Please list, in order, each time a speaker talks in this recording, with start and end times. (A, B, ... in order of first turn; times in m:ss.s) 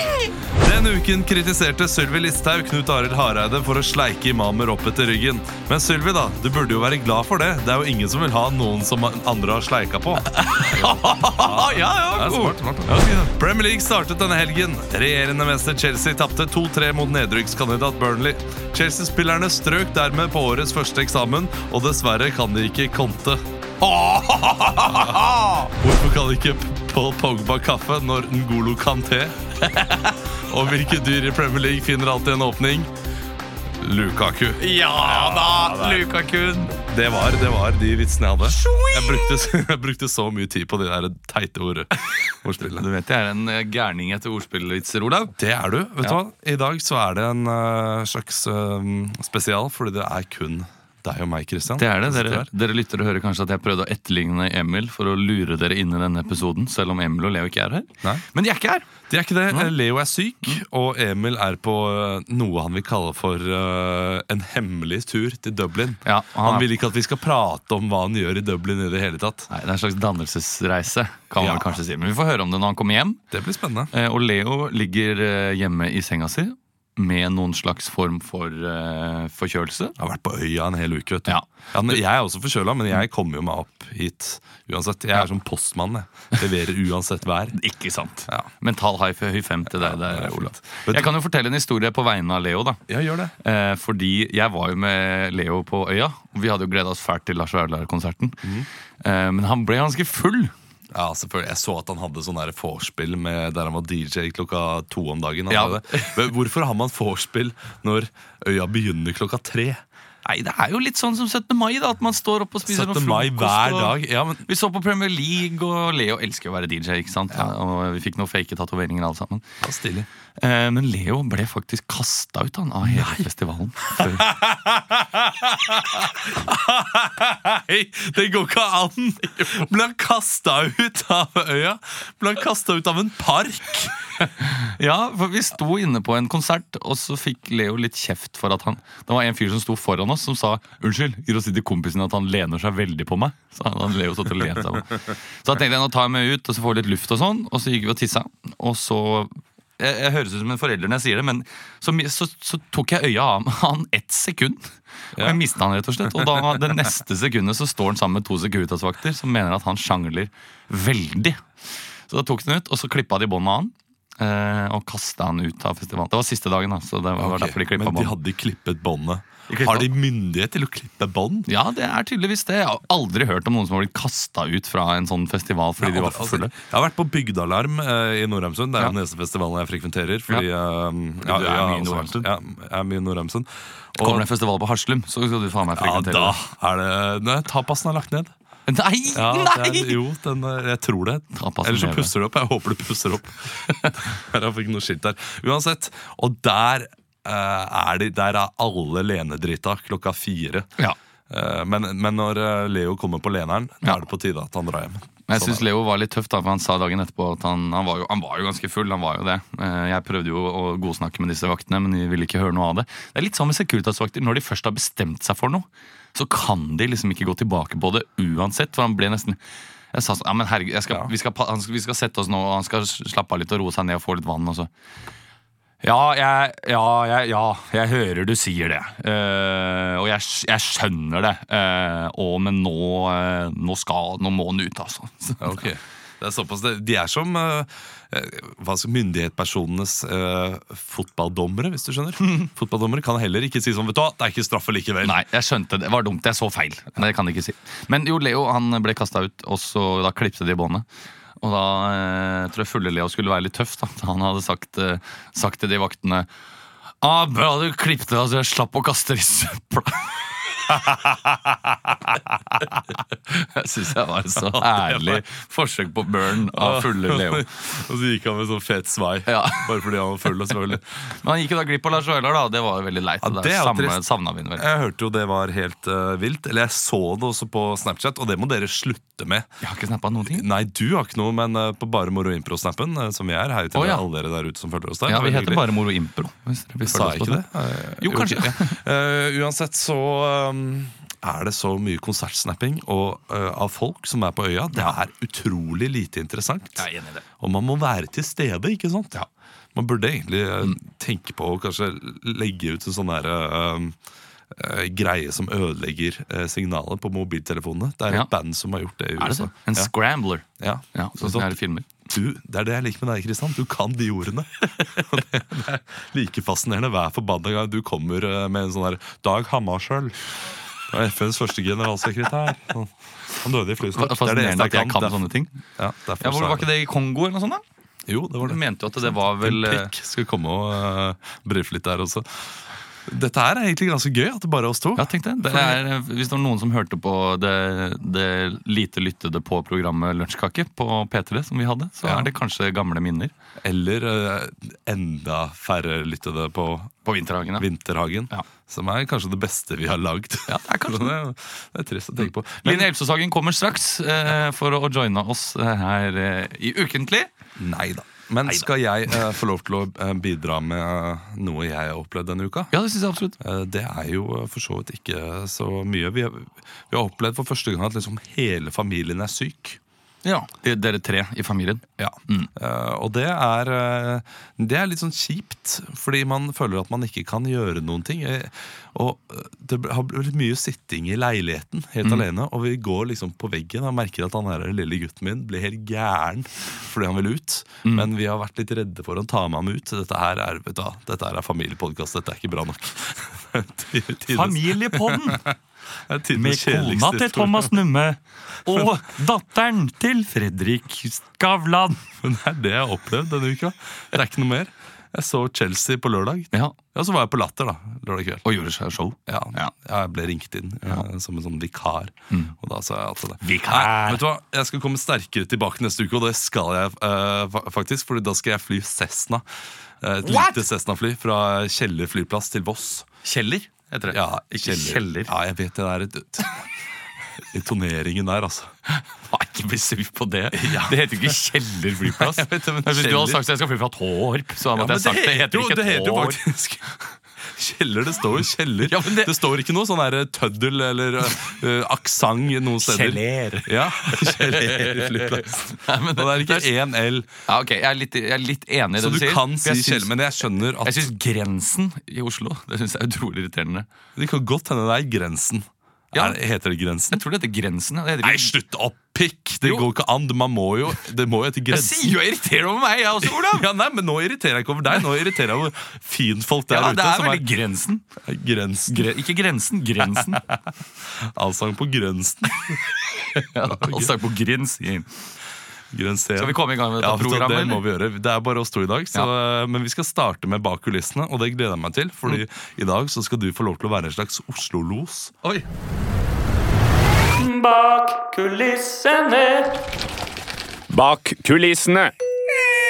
0:00.6-0:23.4 A
0:10.2-0:13.3 B
0:23.8-0:25.6 B
0:24.7-0:29.5 A
0:29.7-0:30.0 B
0:30.5-0:32.9 A
0:33.8-0:36.1 A
0:34.6-0:36.7 B
0:36.8-0:42.8 A
0:38.6-0:39.0 B
0:42.6-0:45.4 B
0:45.4-0:52.5 A
0:51.8-0:58.9 B
0:59.1-1:09.5 A
1:06.0-1:06.7 B
1:09.5-1:13.2 B
1:11.4-1:11.8 A
1:13.3-1:13.9 A
1:13.9-1:19.9 B
1:20.0-1:27.6 A
1:21.3-1:22.0 B
1:27.5-1:32.8 B
1:29.7-1:31.1 A
1:32.9-1:33.3 A
1:33.4-1:38.4 B
1:39.0-1:40.5 B
1:40.9-1:49.8 A
1:45.5-1:46.3 B
1:50.2-1:59.4 B
1:52.6-1:54.4 A
1:59.6-2:00.1 A
2:00.4-2:04.3 B
2:02.8-2:03.3 A
2:03.9-2:14.0 A
2:14.4-2:41.4 B
2:36.1-2:36.7 A
2:42.1-2:48.2 B
2:47.2-2:51.5 A
2:49.5-2:49.9 B
2:51.5-2:56.5 B
2:55.8-3:04.3 A
3:01.2-3:02.3 B
3:04.0-3:06.4 B
3:05.7-3:08.3 A
3:08.7-3:10.0 B
3:09.1-3:20.7 A
3:11.3-3:12.1 B
3:21.3-3:25.6 A
3:25.3-3:39.4 B
3:39.9-3:44.7 B
3:45.8-3:55.6 B
3:55.4-4:05.2 A
4:05.0-4:10.8 B
4:11.4-4:16.3 B
4:17.0-4:20.1 B
4:20.7-4:22.8 A
4:23.3-4:27.5 B
4:24.3-4:25.2 A
4:26.5-4:30.8 A
4:29.3-4:29.9 B
4:31.1-4:34.7 B
4:33.2-4:34.0 A
4:34.6-4:39.5 A
4:39.6-4:40.5 B
4:40.2-4:45.6 A
4:43.7-4:44.0 B
4:45.0-4:47.4 B
4:46.8-4:56.9 A
4:48.0-4:48.8 B
4:56.8-4:57.2 B
4:57.4-4:59.2 A
4:59.7-5:04.0 A
5:04.5-5:09.9 A
5:09.2-5:11.9 B
5:10.6-5:20.2 A
5:20.9-5:25.2 A
5:23.9-5:25.5 B
5:25.8-5:26.7 A
5:26.2-5:27.6 B
5:28.1-5:32.5 A
5:28.4-5:29.9 B
5:33.0-5:35.8 A
5:35.0-5:43.3 B
5:42.0-5:42.3 A
5:43.6-5:46.9 A
5:47.0-5:47.6 B
5:47.6-5:52.9 A
5:50.5-5:51.2 B
5:52.6-5:57.3 B
5:57.6-6:02.7 A
6:02.7-6:03.4 B
6:03.4-6:09.8 A
6:10.2-6:12.5 B
6:12.0-6:35.5 A
6:27.8-6:28.1 B
6:34.3-6:35.5 B
6:36.1-6:37.8 A
6:36.3-6:42.0 B
6:38.7-6:38.9 A
6:42.2-6:48.4 A
6:48.4-6:49.7 B
6:49.3-6:59.4 A
6:53.4-6:54.2 B
7:00.0-7:03.1 A
7:00.2-7:00.6 B
7:03.2-7:05.3 B
7:04.1-7:06.6 A
7:07.5-7:08.7 A
7:08.9-7:16.4 B
7:10.5-7:11.3 A
7:12.0-7:13.5 A
7:14.7-7:27.3 A
7:18.8-7:19.3 B
7:22.8-7:26.7 B
7:27.4-7:30.1 B
7:29.0-7:31.1 A
7:30.8-7:33.9 B
7:34.2-7:37.2 A
7:36.1-7:36.4 B
7:37.1-7:38.5 B
7:38.2-7:42.2 A
7:39.6-7:39.9 B
7:41.7-7:43.7 B
7:43.2-7:47.5 A
7:46.7-7:48.0 B
7:48.2-7:49.1 A
7:48.9-7:50.4 B
7:50.0-7:50.6 A
7:51.1-7:52.8 A
7:53.1-7:55.1 B
7:53.6-7:54.1 A
7:55.9-8:05.4 A
7:56.4-7:57.8 B
8:07.4-8:09.7 B
8:11.5-8:11.9 B